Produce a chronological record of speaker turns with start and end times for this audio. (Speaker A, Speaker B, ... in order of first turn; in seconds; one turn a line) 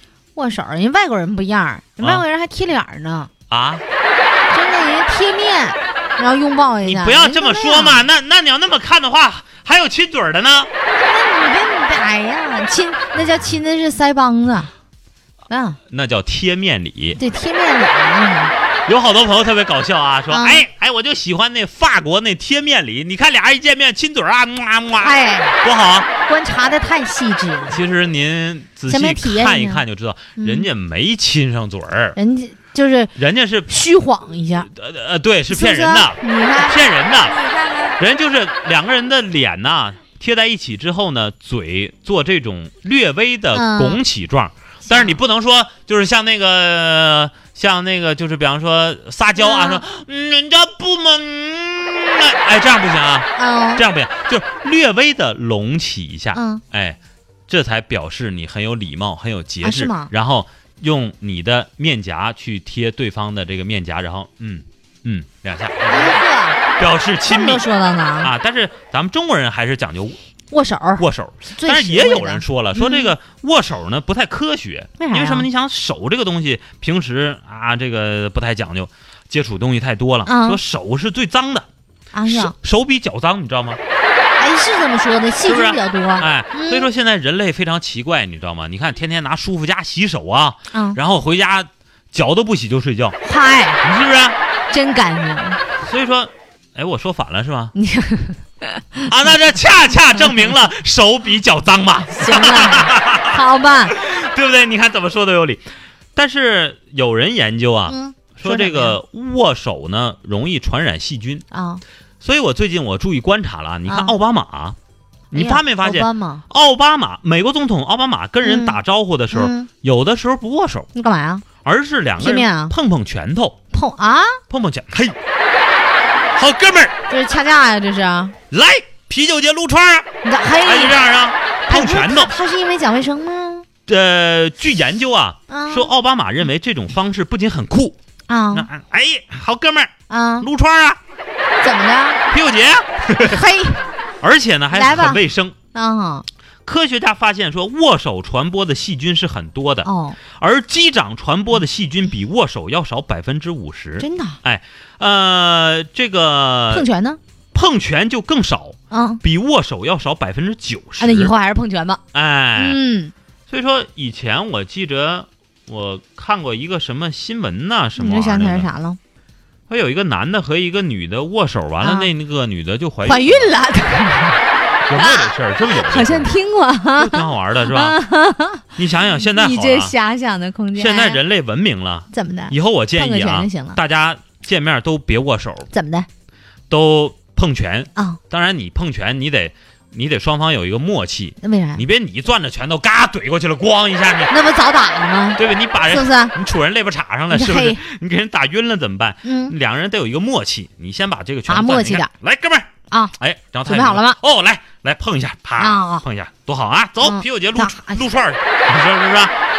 Speaker A: 0.4-3.3
Speaker B: 3.5-3.8
Speaker A: 4.5-8.1
Speaker B: 6.8-10.7
Speaker A: 11.0-14.7
Speaker A: 15.5-15.8
Speaker B: 15.9-17.2
Speaker A: 17.2-18.5
Speaker B: 18.9-26.1
Speaker A: 20.3-20.6
Speaker A: 25.0-25.6
Speaker A: 26.3-27.8
Speaker B: 27.7-32.2
Speaker A: 28.9-29.8
Speaker A: 30.4-30.7
Speaker A: 32.2-33.1
Speaker B: 33.2-33.7
Speaker A: 33.7-34.7
Speaker B: 34.6-37.4
Speaker A: 35.5-38.0
Speaker B: 38.0-66.2
Speaker A: 43.5-44.0
Speaker A: 44.9-45.1
Speaker A: 49.4-49.8
Speaker A: 53.4-53.8
Speaker A: 56.3-56.6
Speaker A: 59.6-60.1
Speaker A: 65.9-66.6
Speaker B: 66.8-67.6
Speaker A: 67.3-68.3
Speaker B: 68.2-70.2
Speaker A: 70.5-71.0
Speaker B: 71.0-81.7
Speaker A: 71.6-73.1
Speaker A: 75.0-75.5
Speaker A: 80.3-80.6
Speaker A: 82.1-82.5
Speaker B: 82.3-83.8
Speaker A: 84.4-86.9
Speaker B: 85.5-93.2
Speaker A: 90.7-91.0
Speaker A: 93.2-93.8
Speaker B: 93.8-94.4
Speaker A: 94.7-95.6
Speaker B: 95.8-97.7
Speaker A: 97.8-99.1
Speaker B: 99.1-105.6
Speaker A: 102.1-103.9
Speaker B: 106.2-111.4
Speaker A: 107.9-109.0
Speaker A: 111.5-111.8
Speaker B: 112.2-114.8
Speaker A: 113.9-114.2
Speaker A: 115.3-116.4
Speaker B: 115.3-120.9
Speaker A: 118.4-118.8
Speaker A: 119.3-119.7
Speaker A: 121.0-121.5
Speaker B: 121.6-123.6
Speaker A: 122.2-122.7
Speaker A: 123.7-124.4
Speaker B: 124.5-125.2
Speaker B: 126.4-126.9
Speaker A: 127.1-128.3
Speaker B: 128.5-130.1
Speaker A: 130.2-131.0
Speaker B: 130.6-132.3
Speaker A: 131.7-133.7
Speaker B: 133.9-138.0
Speaker A: 135.5-135.9
Speaker A: 138.3-138.7
Speaker B: 138.5-141.0
Speaker A: 140.1-140.5
Speaker A: 141.6-142.2
Speaker B: 142.3-143.4
Speaker A: 143.2-143.8
Speaker B: 144.2-145.6
Speaker A: 144.7-145.2
Speaker A: 145.7-146.3
Speaker B: 146.7-156.9
Speaker A: 149.8-150.2
Speaker A: 154.0-154.4
Speaker A: 156.7-157.2
Speaker B: 157.5-161.3
Speaker A: 158.9-159.2
Speaker A: 161.0-162.0
Speaker B: 162.1-162.8
Speaker A: 162.6-163.1
Speaker B: 163.5-168.7
Speaker A: 168.0-169.0
Speaker B: 169.7-173.5
Speaker A: 171.8-172.1
Speaker A: 173.1-174.4
Speaker B: 174.9-176.3
Speaker A: 174.9-178.7
Speaker B: 177.0-178.0
Speaker B: 178.8-179.9
Speaker A: 179.2-181.2
Speaker B: 180.8-185.7
Speaker A: 182.1-183.8
Speaker A: 185.7-186.1
Speaker B: 186.7-194.3
Speaker A: 191.4-191.8
Speaker A: 194.3-196.3
Speaker B: 195.4-209.3
Speaker A: 197.3-197.8
Speaker A: 199.2-199.5
Speaker A: 201.5-202.1
Speaker A: 203.7-204.2
Speaker A: 205.6-206.1
Speaker A: 207.0-208.1